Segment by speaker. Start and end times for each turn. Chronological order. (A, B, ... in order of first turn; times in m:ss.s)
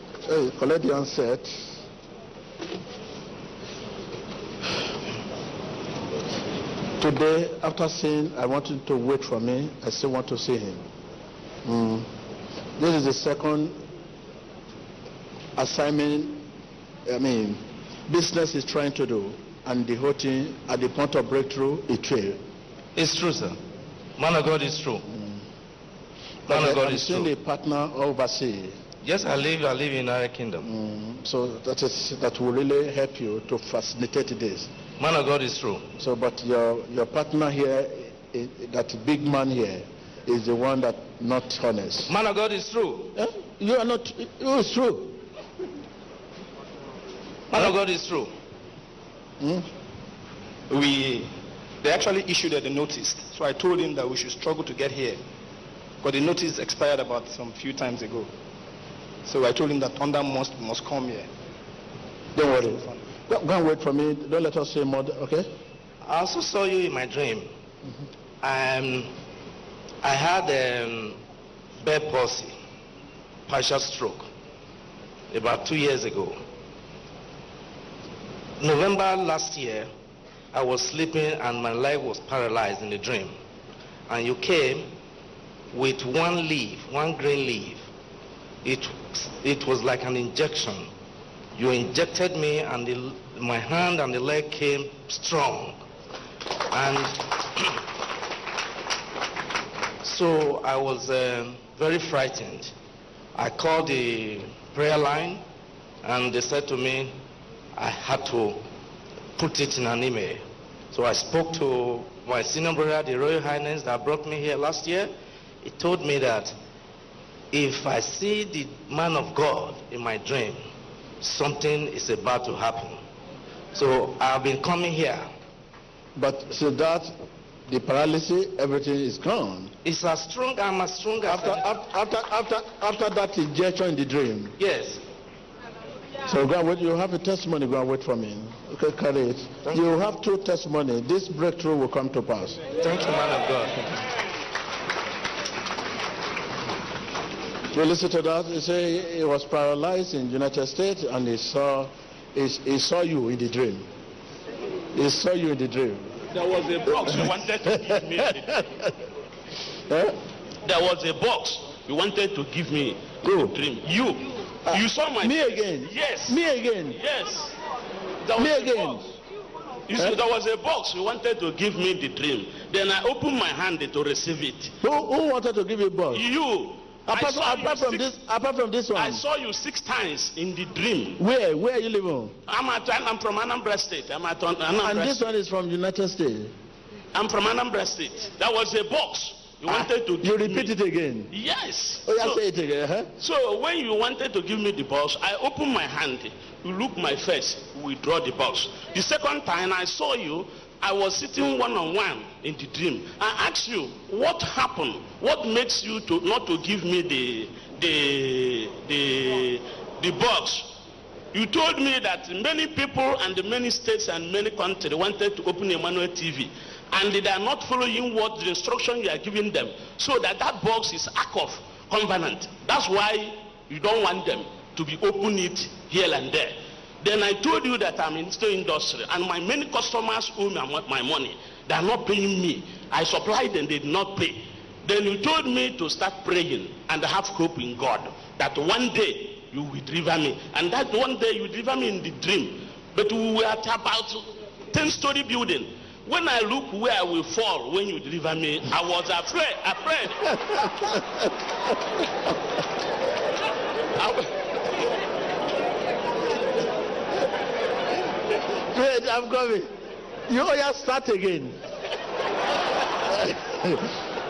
0:00.3-0:01.8 A
0:07.0-0:10.8 A
0:11.6-0:12.1 A
0:12.8-0:13.8 A
0:15.6-0:16.5 A
0:17.1-0:22.4 A
0:23.0-0:23.6 B
0:24.2-0:25.0 B
0:25.1-0:25.4 A
0:26.5-0:27.3 B
0:26.5-0:28.8 A
0:29.0-0:30.7 B
0:30.6-0:34.7 A
0:35.0-0:35.9 B
0:36.0-0:42.1 A
0:42.1-0:43.1 B
0:43.2-0:45.2 A
0:47.5-0:48.3 B
0:49.4-0:49.7 A
0:51.9-0:55.2 C
0:56.0-0:58.3 C
0:59.3-1:01.3 C
1:02.4-1:05.5 A
1:06.0-1:07.5 B
1:08.4-1:09.1 B
1:10.0-1:11.2 B
1:11.8-1:12.5 B
1:13.5-1:14.3 B
1:15.3-1:16.4 B
1:18.6-1:19.9 B
1:20.5-1:23.4 B
1:24.1-1:24.9 B
1:25.7-1:27.9 B
1:28.6-1:30.9 B
1:31.6-1:35.8 B
1:36.7-1:37.7 B
1:40.0-1:42.7 B
1:43.4-1:45.4 B
1:46.0-1:47.2 B
1:47.7-1:48.6 B
1:49.4-1:55.1 B
1:55.6-1:56.6 B
1:57.5-2:00.6 B
2:01.2-2:03.0 B
2:03.7-2:05.3 B
2:06.2-2:07.2 A
2:07.7-2:09.7 A
2:09.8-2:11.7 B
2:11.2-2:14.5 A
2:14.6-2:15.0 B
2:16.3-2:22.6 A
2:22.8-2:24.0 B
2:27.7-2:33.9 A
2:34.9-2:36.2 A
2:36.4-2:38.6 D
2:36.8-2:38.6 A
2:39.9-2:40.2 A
2:40.6-2:46.4 D
2:43.2-2:43.6 A
2:44.7-2:47.0 A
2:46.9-2:47.5 D
2:48.2-2:49.1 D
2:48.4-2:49.0 A
2:49.9-2:54.7 D
2:54.8-2:56.3 A
2:56.1-2:58.1 D
2:57.1-2:59.2 A
2:59.0-3:01.2 D
3:01.2-3:02.4 A
3:02.5-3:05.2 D
3:04.7-3:06.5 A
3:07.1-3:10.7 D
3:09.7-3:11.3 A
3:11.3-3:12.4 D
3:12.0-3:13.1 A
3:13.2-3:30.8 D
3:31.3-4:10.2 D
4:10.4-4:11.3 A
4:14.0-4:14.8 A
4:18.7-4:19.7 A
4:20.3-4:21.6 A
4:23.0-4:23.9 A